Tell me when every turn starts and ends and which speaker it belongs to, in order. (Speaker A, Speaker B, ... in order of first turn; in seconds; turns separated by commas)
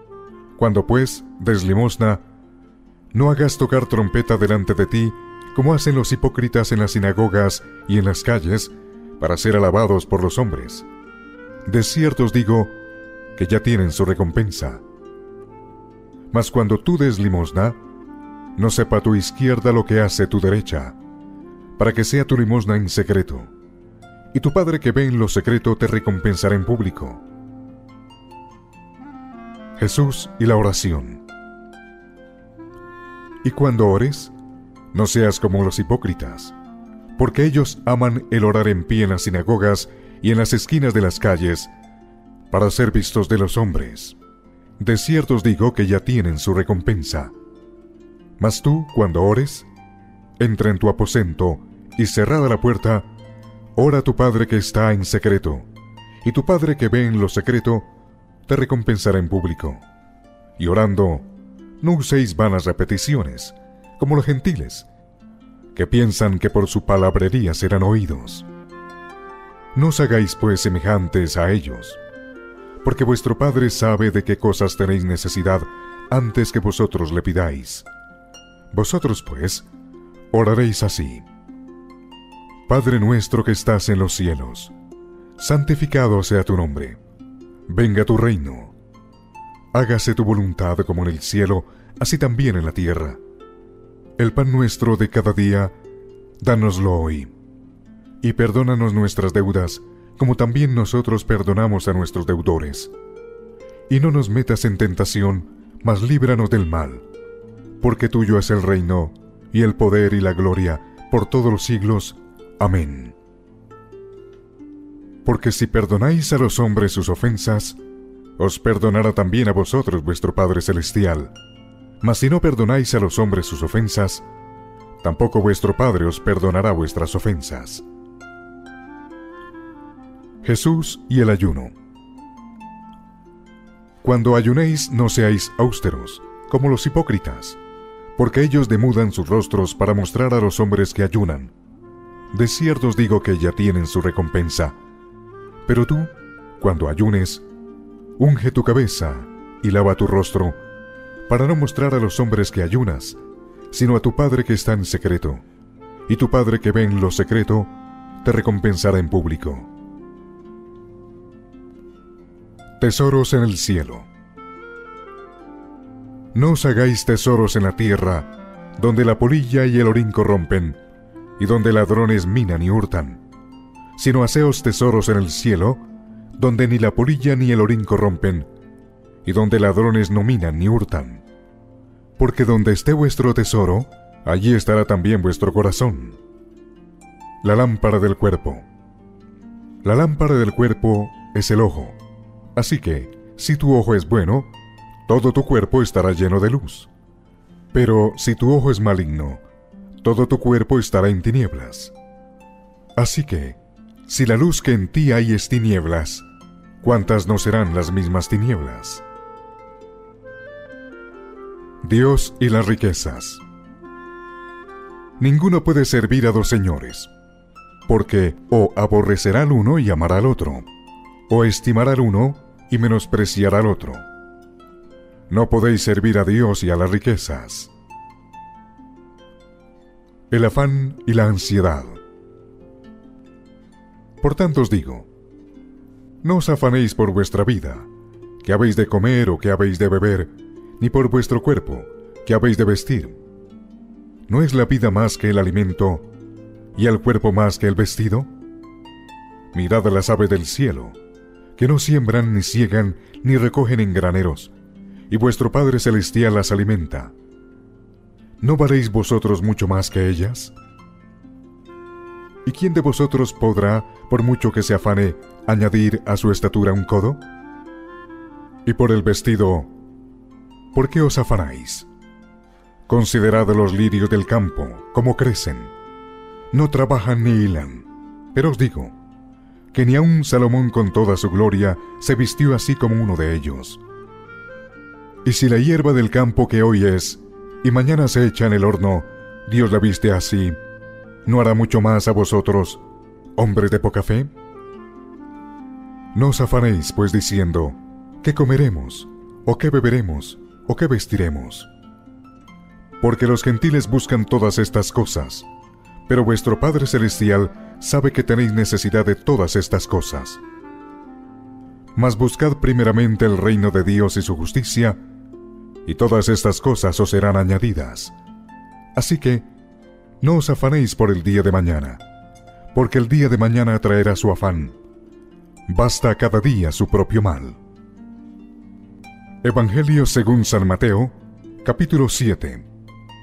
Speaker A: 0.6-2.2, Speaker A: 3.1-10.8, Speaker A: 11.6-12.8, Speaker A: 13.3-14.8, Speaker A: 16.3-17.8, Speaker A: 18.6-21.0, Speaker A: 21.8-23.5, Speaker A: 24.3-27.2, Speaker A: 29.8-31.2, Speaker A: 33.4-34.3, Speaker A: 34.9-36.5, Speaker A: 37.1-41.7, Speaker A: 42.5-44.2, Speaker A: 44.8-47.3, Speaker A: 48.4-49.7, Speaker A: 50.4-53.1, Speaker A: 53.8-55.7, Speaker A: 56.2-57.9, Speaker A: 58.5-59.8, Speaker A: 60.6-61.3, Speaker A: 61.8-64.9, Speaker A: 65.7-68.5, Speaker A: 69.7-72.0, Speaker A: 72.8-77.9, Speaker A: 78.7-79.7, Speaker A: 80.3-81.2, Speaker A: 82.7-84.7, Speaker A: 85.4-87.0, Speaker A: 87.7-88.7, Speaker A: 89.7-93.2, Speaker A: 94.2-95.7, Speaker A: 96.4-97.3, Speaker A: 98.2-102.9, Speaker A: 103.9-107.0, Speaker A: 107.8-113.1, Speaker A: 115.2-117.8, Speaker A: 118.4-121.3, Speaker A: 122.0-124.2, Speaker A: 125.0-127.8, Speaker A: 130.4-131.7, Speaker A: 134.0-137.6, Speaker A: 138.2-141.5, Speaker A: 142.3-144.8, Speaker A: 145.7-147.4, Speaker A: 148.2-150.6, Speaker A: 151.3-153.2, Speaker A: 153.7-155.4, Speaker A: 156.1-159.7, Speaker A: 162.8-164.1, Speaker A: 166.3-170.8, Speaker A: 171.4-173.2, Speaker A: 173.9-175.8, Speaker A: 176.4-178.5, Speaker A: 179.2-181.2, Speaker A: 182.2-186.2, Speaker A: 187.4-188.6, Speaker A: 189.8-192.0, Speaker A: 192.5-194.5, Speaker A: 195.1-196.9, Speaker A: 197.7-199.4, Speaker A: 200.0-201.9, Speaker A: 203.0-206.2, Speaker A: 206.8-209.0, Speaker A: 211.8-213.4, Speaker A: 215.2-217.1, Speaker A: 217.9-220.7, Speaker A: 221.3-224.0, Speaker A: 225.3-227.7, Speaker A: 230.3-232.0, Speaker A: 234.2-235.1, Speaker A: 236.2-237.9, Speaker A: 238.4-243.2, Speaker A: 244.3-246.1, Speaker A: 246.7-248.3, Speaker A: 249.5-251.0, Speaker A: 251.6-254.5, Speaker A: 255.1-257.1, Speaker A: 258.4-260.5, Speaker A: 262.4-267.2, Speaker A: 268.6-269.7, Speaker A: 270.7-271.9, Speaker A: 272.9-275.7, Speaker A: 276.5-278.9, Speaker A: 279.7-283.8, Speaker A: 285.2-290.6, Speaker A: 291.2-292.8, Speaker A: 293.4-294.3, Speaker A: 296.1-301.7, Speaker A: 303.0-305.5, Speaker A: 306.1-310.4, Speaker A: 311.9-315.0, Speaker A: 315.8-318.1, Speaker A: 318.9-319.5, Speaker A: 320.2-322.0, Speaker A: 322.7-324.8, Speaker A: 325.7-327.6, Speaker A: 329.4-332.7